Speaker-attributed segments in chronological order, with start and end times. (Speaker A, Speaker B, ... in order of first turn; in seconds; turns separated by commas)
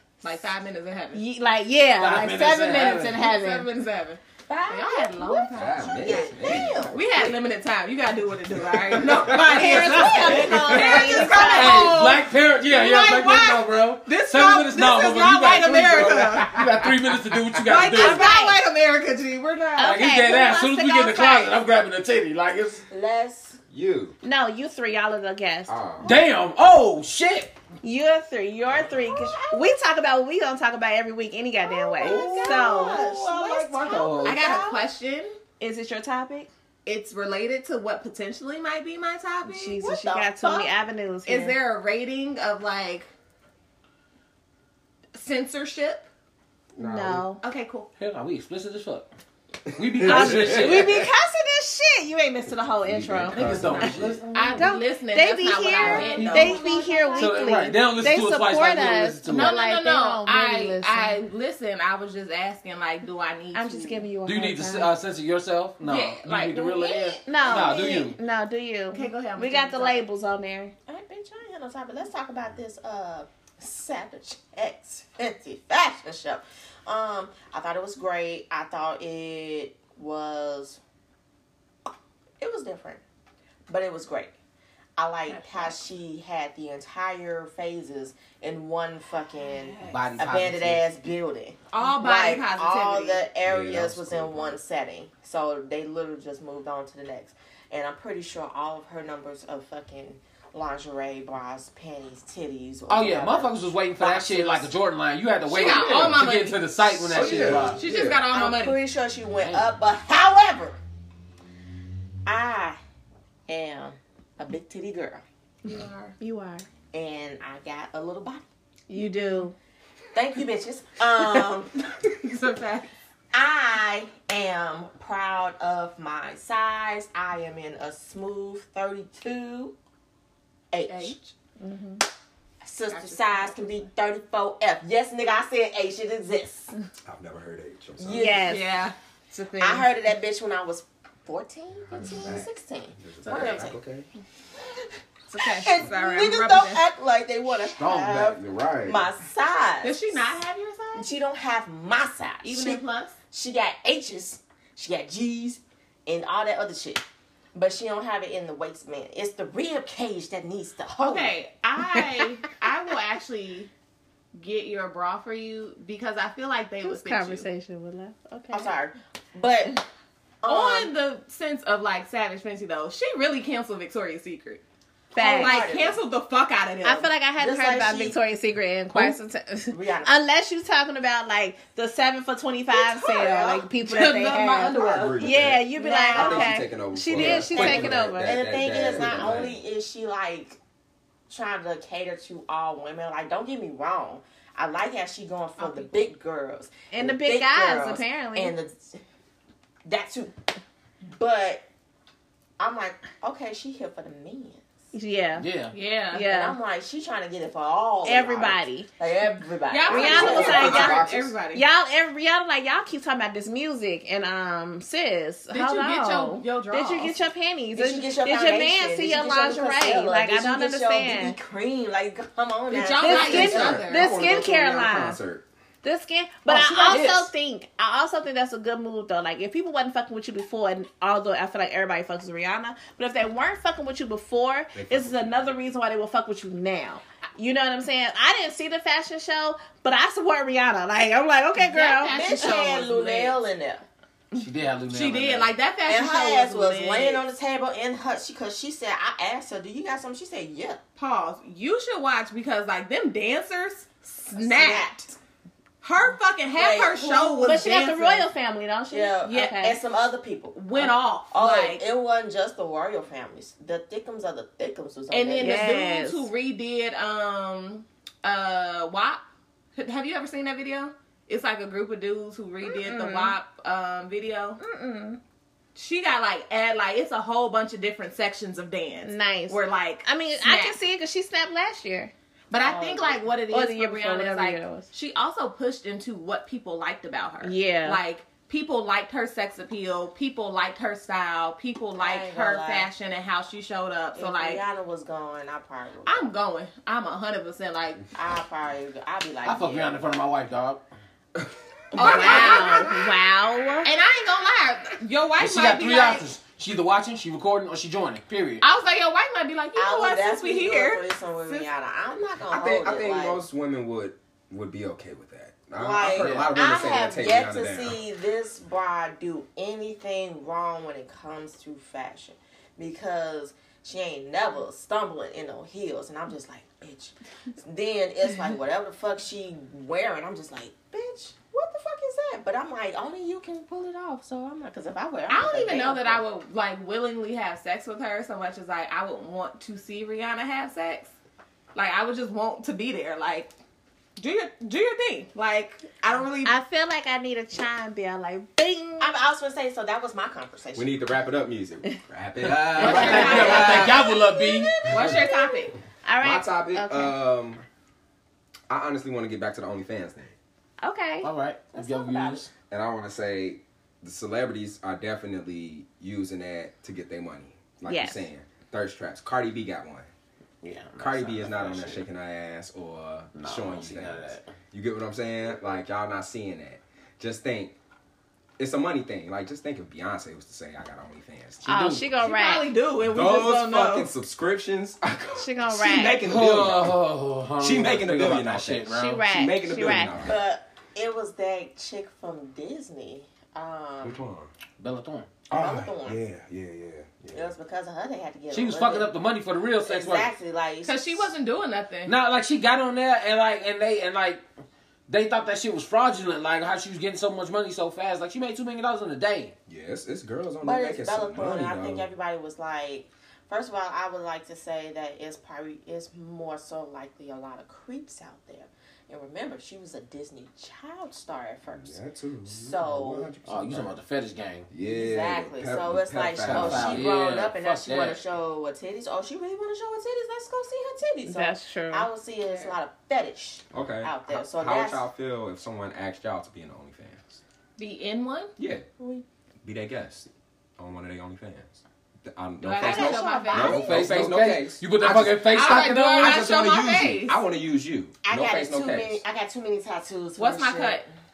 Speaker A: 0.2-1.2, Speaker B: 1.1-3.7, Speaker C: 2.0-3.2, Speaker A: 2.7-16.6, Speaker D: 4.5-7.3, Speaker E: 5.5-6.9, Speaker E: 8.9-9.5, Speaker B: 9.5-11.9, Speaker C: 9.6-18.3, Speaker D: 9.7-11.7, Speaker E: 16.2-16.6, Speaker A: 17.6-20.0, Speaker B: 17.9-18.6, Speaker B: 19.8-21.6, Speaker C: 19.8-22.8, Speaker D: 22.9-23.6, Speaker E: 23.7-24.2, Speaker B: 24.2-25.7, Speaker E: 25.7-26.1, Speaker C: 26.0-27.5, Speaker B: 27.8-33.0, Speaker D: 29.0-29.8, Speaker D: 31.6-34.9, Speaker C: 32.0-34.6, Speaker A: 34.2-35.4, Speaker B: 35.6-36.5, Speaker A: 36.8-40.0, Speaker B: 39.5-41.6, Speaker D: 39.8-40.7, Speaker A: 41.2-43.1, Speaker A: 45.1-46.1, Speaker E: 46.8-47.2, Speaker B: 46.8-47.4, Speaker A: 47.4-47.9, Speaker C: 48.0-49.1, Speaker E: 49.7-51.0, Speaker C: 49.7-51.0, Speaker B: 50.0-61.2, Speaker E: 52.8-54.2, Speaker C: 53.3-54.7, Speaker A: 54.3-56.7, Speaker D: 55.8-57.6, Speaker C: 56.0-56.5, Speaker C: 57.2-59.5, Speaker A: 59.2-64.0, Speaker B: 63.5-64.9, Speaker C: 64.2-68.2, Speaker A: 65.8-67.2, Speaker B: 67.2-70.7, Speaker D: 67.4-68.0, Speaker A: 68.9-70.0, Speaker D: 70.9-80.8, Speaker D: 82.4-83.0, Speaker D: 83.7-84.3, Speaker D: 85.0-104.7, Speaker A: 85.3-85.8, Speaker A: 89.5-89.8, Speaker C: 89.9-90.8, Speaker A: 91.7-93.3, Speaker E: 93.4-94.6, Speaker C: 102.9-107.8, Speaker A: 105.5-108.8, Speaker E: 107.1-108.2, Speaker D: 108.3-110.8, Speaker C: 109.4-109.7, Speaker D: 112.2-112.8, Speaker D: 113.5-115.2, Speaker A: 115.6-116.1, Speaker B: 116.2-116.7, Speaker D: 116.9-118.4, Speaker B: 118.9-119.5, Speaker D: 120.1-121.7, Speaker A: 122.0-122.9, Speaker D: 123.3-129.7, Speaker D: 130.7-131.2, Speaker A: 130.9-131.3, Speaker B: 131.6-132.0, Speaker D: 132.6-136.7, Speaker A: 132.9-133.9, Speaker E: 137.0-138.4, Speaker D: 138.0-138.6, Speaker B: 138.1-138.7, Speaker A: 138.4-139.9, Speaker D: 139.6-143.8, Speaker E: 141.9-144.1, Speaker A: 143.3-143.6, Speaker A: 145.3-146.8, Speaker D: 145.4-150.3, Speaker C: 147.7-148.4, Speaker E: 148.1-149.1, Speaker A: 149.8-151.1, Speaker D: 150.9-157.0, Speaker A: 152.4-153.1, Speaker D: 157.5-161.3, Speaker A: 161.0-163.7, Speaker A: 164.3-167.4, Speaker B: 166.8-168.7, Speaker D: 168.5-169.8, Speaker D: 170.4-170.9, Speaker A: 170.4-174.6, Speaker B: 175.1-175.6, Speaker A: 175.2-177.1, Speaker D: 175.2-176.0, Speaker B: 176.8-188.4, Speaker D: 177.3-178.2, Speaker D: 179.7-180.1, Speaker D: 182.7-183.7, Speaker A: 183.9-185.3, Speaker E: 184.8-189.6, Speaker D: 184.8-185.2, Speaker D: 185.8-186.6, Speaker D: 187.2-190.6, Speaker D: 191.3-199.0, Speaker A: 195.6-196.1, Speaker B: 196.9-198.6, Speaker D: 199.8-200.3, Speaker D: 201.1-201.7, Speaker D: 202.6-204.7, Speaker B: 204.9-205.5, Speaker C: 205.4-205.7, Speaker A: 205.7-206.2, Speaker B: 206.1-206.6, Speaker D: 206.2-210.9, Speaker B: 208.0-208.9, Speaker A: 209.7-211.6, Speaker B: 209.9-221.4, Speaker E: 209.9-211.3, Speaker A: 215.5-217.2, Speaker D: 217.7-223.9, Speaker A: 222.7-224.1, Speaker B: 223.0-225.2, Speaker E: 223.3-225.4, Speaker B: 225.8-242.2, Speaker C: 226.5-227.3, Speaker E: 234.7-235.5, Speaker A: 241.6-243.4, Speaker D: 242.0-243.8, Speaker A: 244.3-247.2, Speaker C: 244.3-245.5, Speaker D: 245.8-250.8, Speaker A: 251.0-255.1, Speaker D: 254.3-255.2, Speaker A: 255.8-258.3, Speaker D: 256.5-257.6, Speaker B: 257.4-259.8, Speaker D: 258.9-265.7, Speaker A: 260.5-261.8, Speaker A: 265.1-269.2, Speaker B: 265.4-266.3, Speaker A: 269.7-274.6, Speaker B: 272.6-273.4, Speaker B: 274.6-275.2, Speaker A: 275.7-280.8, Speaker B: 279.0-282.1, Speaker A: 282.5-294.6, Speaker D: 282.6-283.3, Speaker B: 283.5-284.9, Speaker B: 287.4-288.0, Speaker D: 291.9-292.9, Speaker D: 294.1-296.3, Speaker A: 296.0-298.0, Speaker D: 298.1-300.1, Speaker C: 299.4-300.8, Speaker E: 301.4-302.8, Speaker B: 301.9-303.9, Speaker A: 301.9-303.0, Speaker A: 303.8-306.2, Speaker C: 305.4-308.6, Speaker A: 308.6-311.7, Speaker D: 309.7-313.4, Speaker E: 312.5-318.0, Speaker D: 315.7-336.2, Speaker C: 316.1-316.6, Speaker A: 335.3-341.1, Speaker A: 341.7-343.5, Speaker A: 344.2-346.5, Speaker B: 346.4-349.1, Speaker D: 349.0-351.0, Speaker E: 350.7-353.9, Speaker C: 352.4-354.7, Speaker A: 352.8-354.0, Speaker D: 352.8-355.7, Speaker A: 354.9-355.7, Speaker B: 356.0-357.1, Speaker E: 356.2-357.6, Speaker E: 358.7-360.3, Speaker B: 360.8-361.3, Speaker C: 361.2-362.5, Speaker D: 361.7-362.4, Speaker E: 362.7-370.1, Speaker B: 367.9-368.3, Speaker C: 370.6-372.1, Speaker E: 371.0-377.7, Speaker C: 373.3-374.5, Speaker E: 378.6-382.0, Speaker B: 381.6-382.7, Speaker A: 382.2-384.1, Speaker E: 383.0-387.0, Speaker B: 385.4-386.2, Speaker C: 386.2-389.3, Speaker E: 387.6-390.4, Speaker B: 388.9-390.2, Speaker D: 390.2-394.2, Speaker E: 394.0-394.5, Speaker C: 394.8-395.3, Speaker E: 395.5-397.5, Speaker D: 395.5-396.2, Speaker D: 397.3-399.1, Speaker C: 398.5-400.3, Speaker D: 399.8-401.3, Speaker A: 400.8-402.1, Speaker C: 402.1-404.4, Speaker C: 405.1-409.5, Speaker E: 409.7-412.1, Speaker D: 410.6-423.3, Speaker E: 421.7-423.9, Speaker C: 423.4-424.7, Speaker E: 424.7-427.1, Speaker D: 424.8-435.1, Speaker C: 426.4-428.2, Speaker B: 431.2-432.1, Speaker E: 433.7-437.4, Speaker A: 437.8-438.5, Speaker E: 438.6-438.9, Speaker D: 439.0-439.2, Speaker E: 439.6-449.2, Speaker A: 442.6-443.9, Speaker D: 442.8-444.1, Speaker C: 443.7-446.4, Speaker A: 445.4-447.4, Speaker D: 448.2-451.1, Speaker A: 450.4-451.1